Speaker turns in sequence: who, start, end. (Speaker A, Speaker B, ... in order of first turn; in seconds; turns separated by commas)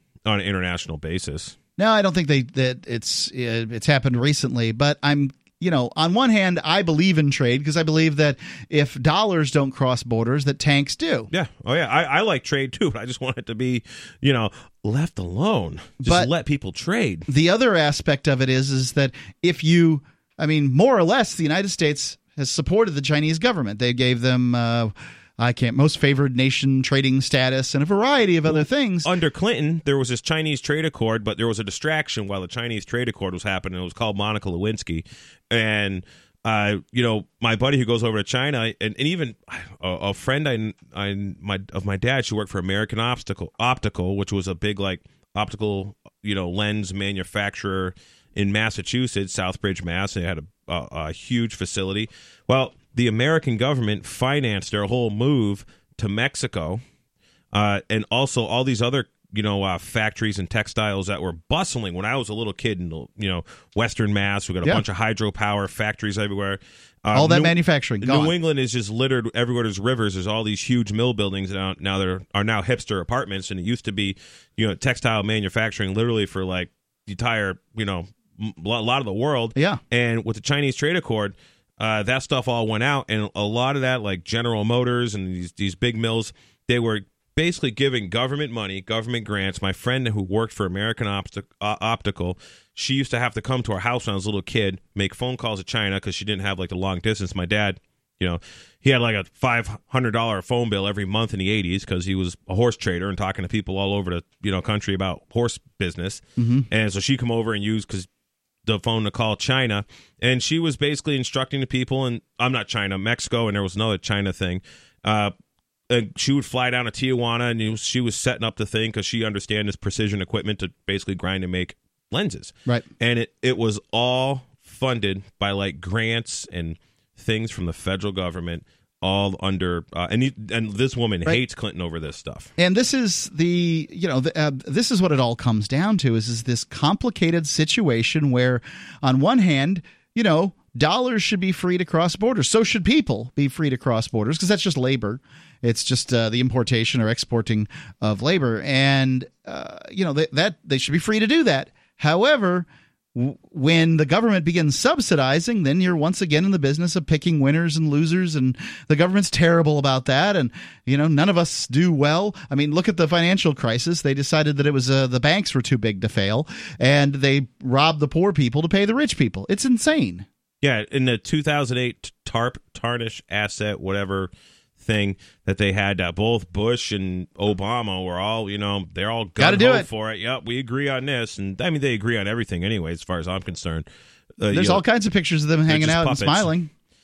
Speaker A: 0.2-1.6, Speaker B: 1.8-11.3, Speaker A: 11.3-17.3, Speaker B: 16.0-16.3, Speaker B: 17.3-29.1, Speaker A: 28.5-56.8, Speaker A: 57.5-108.1, Speaker B: 67.1-68.3, Speaker B: 106.4-106.7, Speaker A: 108.7-115.3, Speaker A: 115.9-132.5, Speaker B: 132.6-170.2, Speaker A: 170.6-183.8, Speaker B: 179.4-179.9, Speaker A: 184.4-184.8, Speaker B: 184.5-186.7, Speaker A: 185.7-186.5